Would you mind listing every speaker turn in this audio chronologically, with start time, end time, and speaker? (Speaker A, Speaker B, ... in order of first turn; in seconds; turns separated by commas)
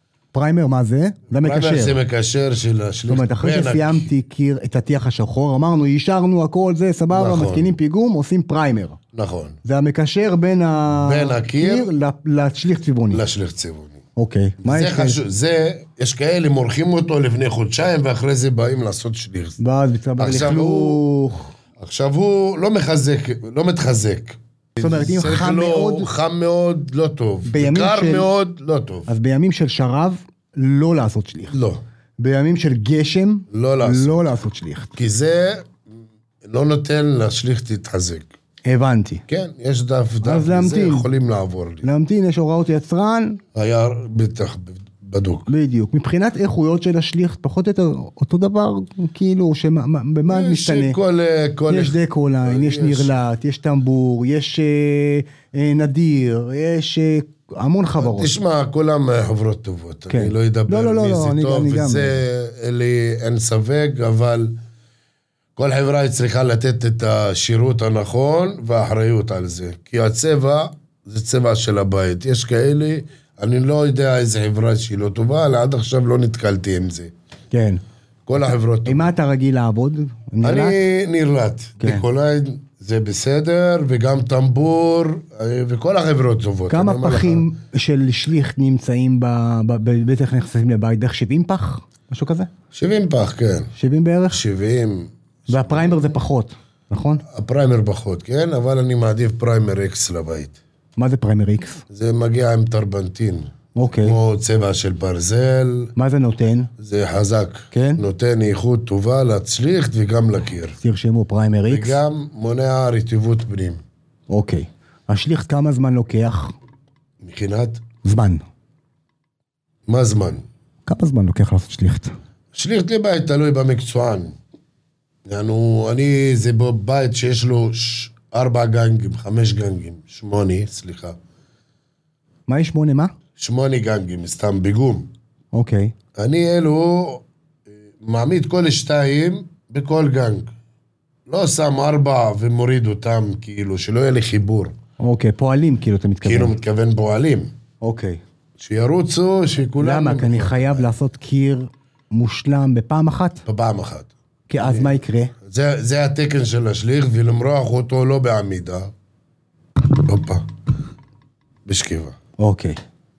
Speaker A: 0.3-2.0, Speaker B: 1.3-4.1, Speaker A: 3.1-9.0, Speaker B: 7.1-7.7, Speaker B: 9.1-9.6, Speaker A: 9.7-13.2, Speaker B: 10.9-11.9, Speaker B: 13.1-14.0, Speaker A: 14.2-15.2, Speaker B: 14.6-19.6, Speaker A: 19.6-21.5, Speaker B: 20.2-21.0, Speaker B: 21.8-29.1, Speaker A: 24.8-26.1, Speaker A: 27.5-28.3, Speaker A: 29.1-31.6, Speaker B: 31.5-31.8, Speaker A: 32.2-35.0, Speaker B: 33.5-34.1, Speaker B: 35.0-35.8, Speaker B: 36.4-38.3, Speaker A: 38.7-39.2, Speaker B: 39.3-41.9, Speaker A: 40.2-41.1, Speaker A: 41.8-43.4, Speaker B: 43.5-45.5, Speaker A: 45.5-51.0, Speaker B: 50.2-53.1, Speaker A: 51.7-58.3, Speaker B: 58.0-64.5, Speaker A: 60.1-62.2, Speaker B: 65.6-77.1, Speaker A: 77.5-77.8, Speaker B: 78.3-79.1, Speaker A: 78.8-80.8, Speaker B: 80.4-87.5, Speaker A: 86.7-92.5, Speaker B: 92.7-93.7, Speaker A: 93.8-94.4, Speaker B: 94.3-96.0, Speaker A: 95.5-97.2, Speaker B: 97.3-100.6, Speaker A: 101.0-101.8, Speaker B: 101.9-105.9, Speaker A: 103.8-104.2, Speaker A: 106.0-106.7, Speaker B: 106.8-110.8, Speaker A: 107.7-108.0, Speaker A: 110.8-112.0, Speaker B: 111.7-113.8, Speaker A: 114.3-116.5, Speaker B: 117.2-117.8, Speaker A: 118.0-118.4, Speaker B: 119.9-120.4, Speaker A: 120.9-122.1, Speaker B: 122.5-124.3, Speaker B: 125.3-131.2, Speaker A: 132.5-133.1, Speaker B: 133.4-135.1, Speaker A: 135.5-135.9, Speaker B: 136.2-137.2, Speaker B: 138.0-140.5, Speaker B: 141.3-144.7, Speaker A: 145.0-146.5, Speaker B: 146.2-147.5, Speaker A: 147.8-148.2, Speaker B: 148.6-150.8, Speaker A: 149.8-153.4, Speaker B: 153.4-154.1, Speaker A: 154.5-155.3, Speaker B: 154.6-158.9, Speaker B: 159.8-160.5, Speaker B: 161.7-162.2, Speaker A: 162.4-162.8